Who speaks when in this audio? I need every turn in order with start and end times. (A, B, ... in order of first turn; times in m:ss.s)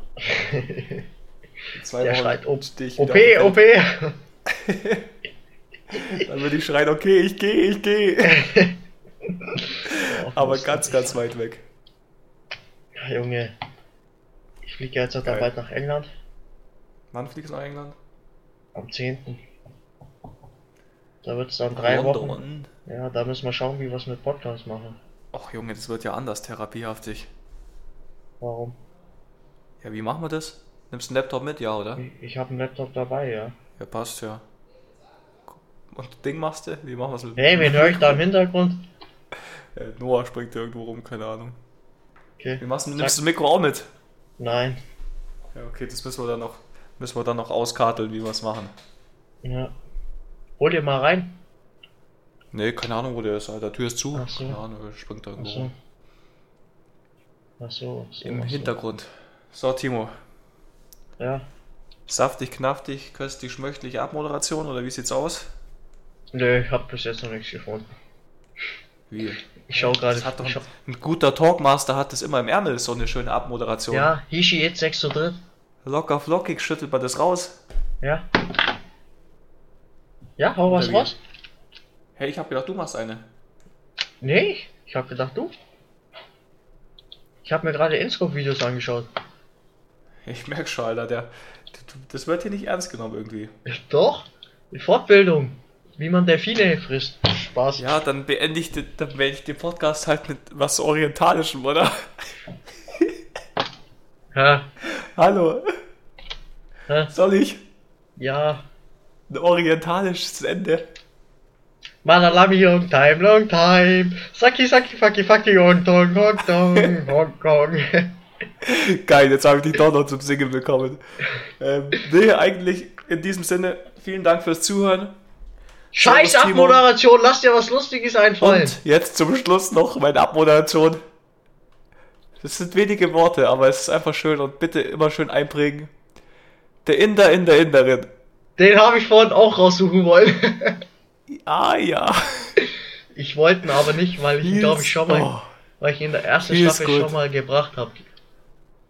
0:00.2-0:01.0 A
0:01.7-0:03.6 B
0:02.0-0:04.2 A
0:04.4-0:05.1 B
0:05.9-0:08.5 B
0:08.2-0:08.8 A
0:09.4-0:11.2 A
0:09.8-0:11.6 B
0:13.0-0:13.5 A
0:14.6-0:16.1 A
0:15.2-0:15.5 B
0:17.1-0:18.0 B
0:18.7-0:19.4 A
0:21.2-0:25.0 A
0:21.7-0:22.7 B
0:25.3-0:27.3 B
0:28.4-0:28.8 A
0:29.8-0:32.0 B
0:32.0-0:33.5 A
0:33.8-0:34.4 B
0:35.5-0:38.2 B
0:37.4-0:38.8 A
0:39.7-0:41.6 B
0:42.4-0:43.2 A
0:42.6-0:43.9 B
0:44.4-0:44.8 A
0:45.5-0:48.7 B
0:49.4-0:49.7 A
0:50.6-0:51.3 A
0:52.5-0:55.7 B
0:54.1-0:54.6 A
0:55.4-0:55.7 A
0:57.6-0:58.7 A
0:58.2-1:00.1 B
1:01.2-1:01.4 A
1:02.1-1:05.5 B
1:06.3-1:07.9 A
1:09.1-1:14.1 B
1:09.7-1:10.6 A
1:13.9-1:15.4 A
1:15.8-1:17.6 B
1:18.0-1:18.3 A
1:20.4-1:21.2 A
1:20.7-1:21.1 B
1:22.2-1:23.3 B
1:24.2-1:25.5 A
1:27.4-1:29.1 A
1:30.2-1:33.5 B
1:33.6-1:38.0 A
1:37.8-1:42.3 B
1:42.8-1:43.2 B
1:44.3-1:44.6 A
1:44.8-1:45.7 B
1:47.1-1:47.6 B
1:48.2-1:48.6 A
1:49.3-1:50.9 B
1:52.0-1:58.2 A
1:58.6-2:05.2 B
2:05.9-2:06.8 B
2:05.9-2:08.8 A
2:08.4-2:11.0 B
2:12.4-2:15.9 B
2:16.8-2:18.1 B
2:18.6-2:20.8 A
2:21.3-2:22.6 B
2:23.1-2:28.0 A
2:24.4-2:25.5 B
2:26.4-2:27.2 B